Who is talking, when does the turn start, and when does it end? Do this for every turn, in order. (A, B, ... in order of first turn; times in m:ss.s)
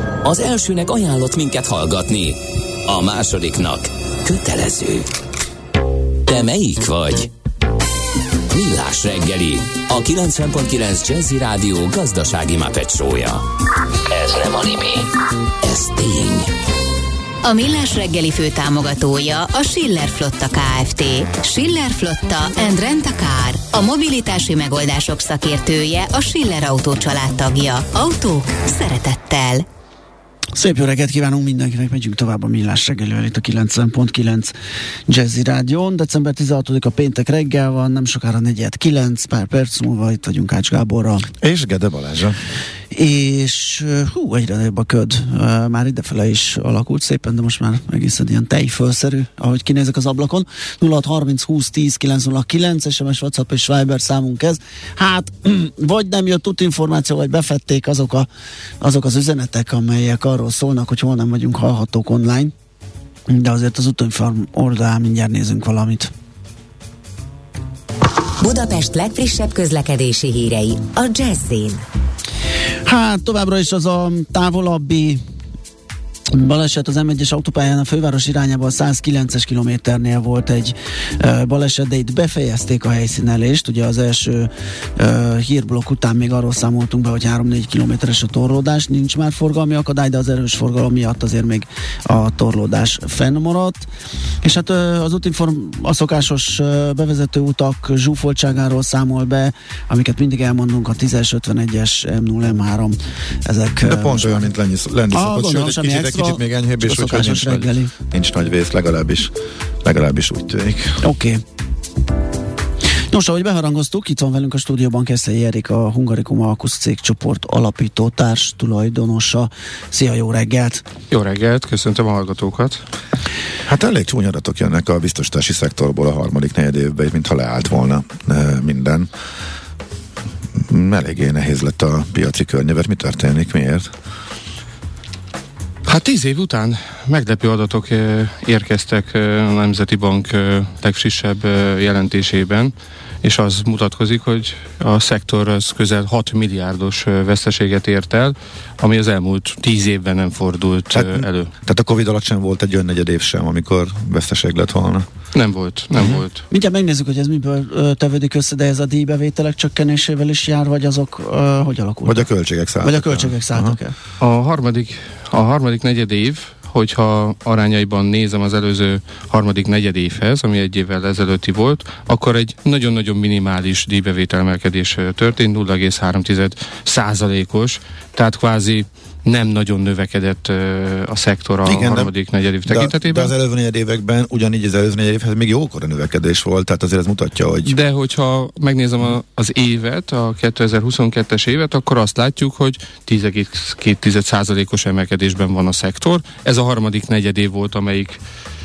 0:00.2-0:05.1 A
0:06.2-0:07.3 A
0:08.5-0:13.4 A
0:14.1-0:15.1 A
0:15.6-0:16.5 A
0:17.4-0:29.6 B
0:30.6-0:34.5 C
0:35.1-0:41.3 C
0:41.4-0:42.4 D
0:42.9-0:58.3 C
0:58.8-1:02.5 C
1:03.3-1:06.1 C
1:08.4-1:11.8 B
1:12.8-1:15.2 C
1:16.3-1:33.9 C
1:34.4-1:44.5 C
1:43.8-1:49.3 D
1:45.1-1:47.9 C
1:49.8-1:51.0 D
1:51.0-1:51.4 C
1:53.1-2:00.8 C
2:01.1-2:02.8 E
2:03.6-2:09.1 D
2:10.6-2:13.9 D
2:15.8-2:31.5 E
2:30.9-2:35.1 D
2:35.3-2:36.4 E
2:36.0-2:36.2 D
2:36.5-2:42.3 C
2:42.0-2:43.8 D
2:42.8-2:43.9 C
2:44.2-3:03.3 E
3:01.6-3:02.1 D
3:02.6-3:07.7 D
3:07.6-3:18.2 E